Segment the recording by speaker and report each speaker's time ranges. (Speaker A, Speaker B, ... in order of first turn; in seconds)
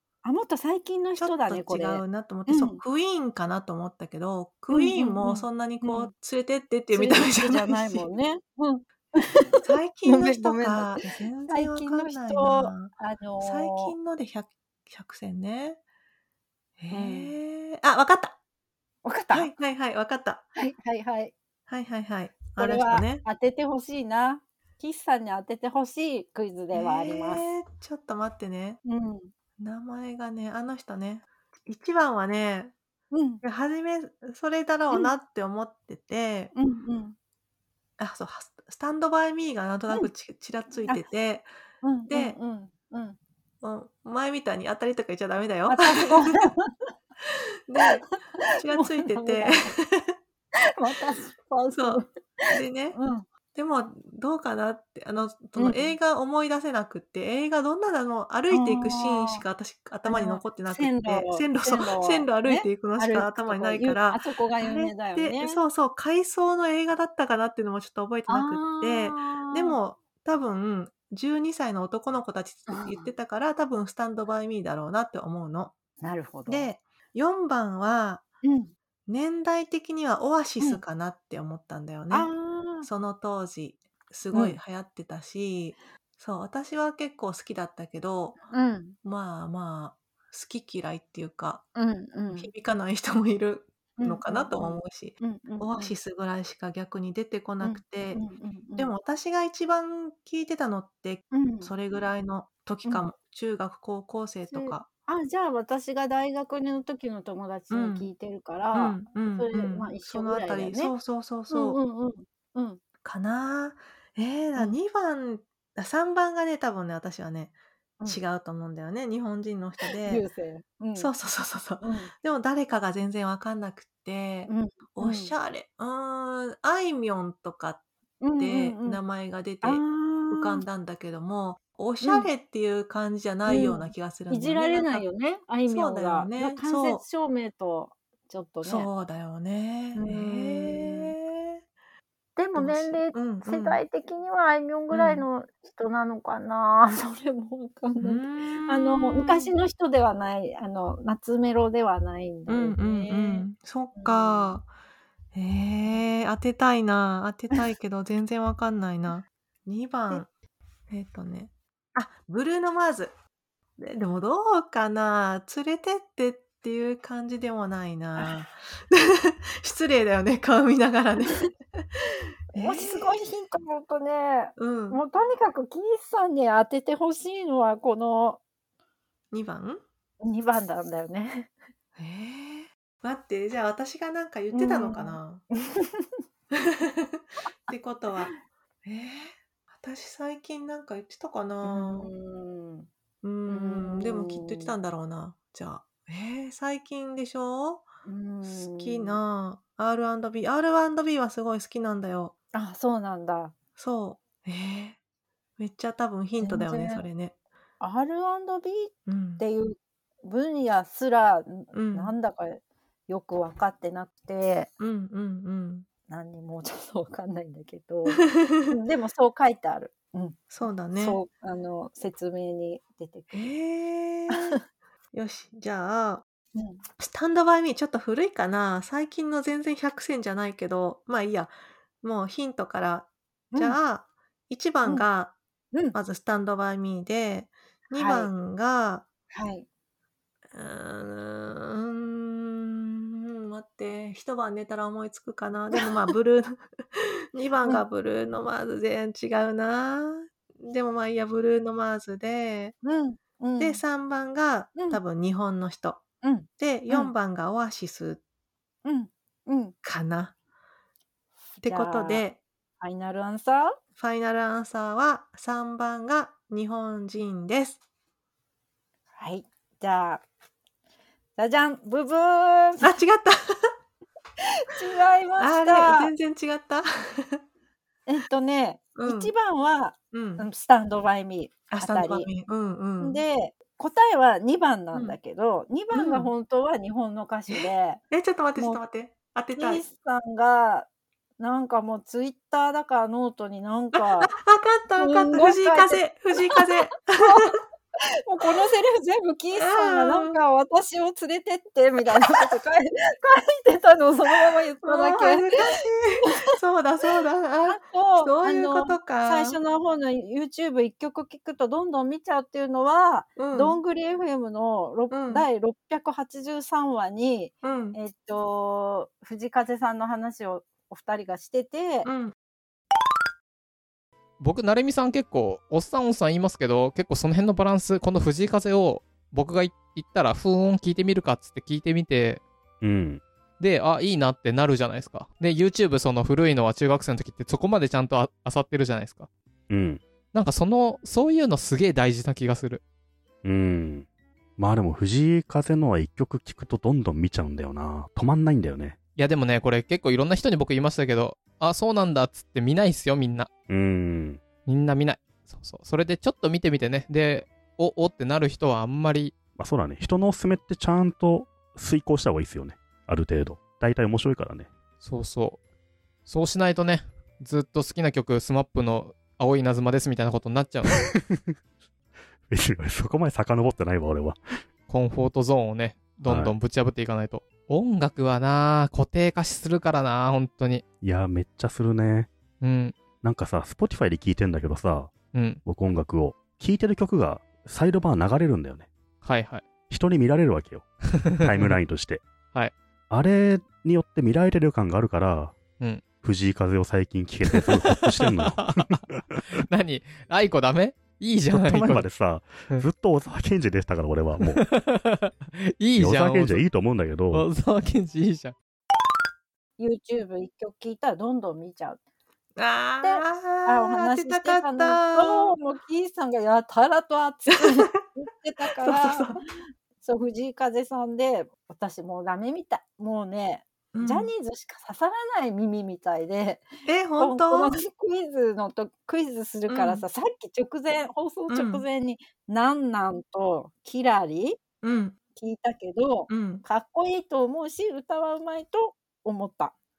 Speaker A: 0.2-2.8, 4.7-6.1, 6.9-13.9, 16.9-17.3, 19.0-19.5, 20.6-21.3, 22.6-27.4, 28.8-29.3, 33.1-33.4, 36.5-37.1, 41.8-43.2, 45.7-46.9, 47.8-49.7, 50.7-53.2, 55.5-55.9, 58.5-59.4, 60.0-65.6, 68.3-69.8, 72.7-73.1, 76.0-76.7, 78.4-78.7, 82.1-82.9, 84.3-84.6, 88.5-89.0, 91.8-92.5, 94.0-95.9, 97.6-98.9, 101.3-101.7, 104.5-110.9, 111.5-112.8, 119.8-121.1, 121.8-122.1, 124.5-125.3, 128.2-129.0, 129.6-130.6, 132.0-132.3, 133.5-138.9, 139.9-141.1, 142.4-154.6, 172.5-178.4, 180.2-181.5, 184.5-186.2, 187.7-188.3, 191.6-192.9, 193.5-194.7, 198.0-199.2, 202.5-203.5, 206.4-207.0, 207.8-214.7, 216.1-223.4, 224.3-224.6, 226.5-226.8, 233.5-233.8, 237.9-238.3, 239.3-239.7, 252.8-253.8, 256.2-257.1, 258.8-259.7, 261.6-262.2, 262.8-263.8, 269.2-270.2, 271.4-272.9, 274.4-276.1, 278.1-282.3, 283.0-288.0, 289.6-290.9, 291.4-294.3, 295.0-297.6, 298.2-305.7, 307.6-322.1, 409.8-412.0, 413.0-419.4, 420.0-426.6, 427.2-434.6, 435.3-439.7
Speaker B: 1.2-8.1, 9.6-15.8, 16.8-18.4, 19.3-20.4, 21.7-23.2, 26.7-28.8, 29.6-32.7, 33.4-36.5, 38.0-41.5, 42.1-42.4, 43.6-46.5, 47.7-50.1, 51.7-53.0, 53.5-75.7, 76.5-78.2, 79.1-82.3, 82.8-88.4, 89.0-91.7, 92.3-98.2, 98.8-104.9, 107.7-108.1, 108.7-111.8, 113.0-117.5, 118.0-120.2, 120.9-127.8, 128.4-135.0, 135.7-137.0, 138.6-141.6, 142.5-143.8, 144.9-145.2, 148.0-149.5, 152.5-154.7, 155.3-160.3, 160.9-163.1, 163.8-173.1, 174.6-175.0, 179.3-179.8, 181.9-185.4, 186.5-188.3, 188.8-192.1, 193.2-197.9, 198.4-202.3, 203.8-205.0, 205.6-207.3, 209.1-209.4, 211.7-212.1, 214.8-215.9, 218.3-218.8, 220.5-221.2, 223.3-224.6, 225.1-226.2, 227.0-235.3, 235.9-239.0, 240.5-252.8, 253.6-256.0, 256.6-258.2, 259.8-260.3, 261.6-262.4, 263.9-267.8, 272.8-273.7, 275.4-277.4, 278.9-279.3, 280.1-280.4, 281.7-283.2, 285.9-286.3, 287.5-289.8, 294.0-297.5, 299.6-300.4, 304.8-309.6, 313.4-313.8, 315.1-315.4, 317.6-318.0, 322.0-322.3, 412.6-415.6, 417.5-418.0, 418.8-419.4, 423.9-424.3, 426.9-427.8, 429.7-430.0, 431.5-431.8, 434.8-435.2, 436.3-436.6
Speaker C: 324.4-332.4, 333.6-339.3, 340.3-342.8, 349.1-353.5, 354.6-359.3, 365.0-365.6, 366.2-371.0, 374.9-380.8, 382.6-382.9, 385.3-385.6, 389.2-389.6, 391.4-391.7, 397.5-399.0, 399.6-402.1, 404.4-406.6, 407.3-408.5
Speaker D: 332.8-333.2, 339.7-340.0, 343.4-344.1, 344.6-349.0, 353.7-354.4, 359.6-364.7, 372.5-374.4, 376.2-376.5, 381.0-382.3, 383.2-388.9, 389.9-390.9, 391.4-392.2, 393.1-395.6, 396.2-399.4, 401.5-404.6, 406.0-407.4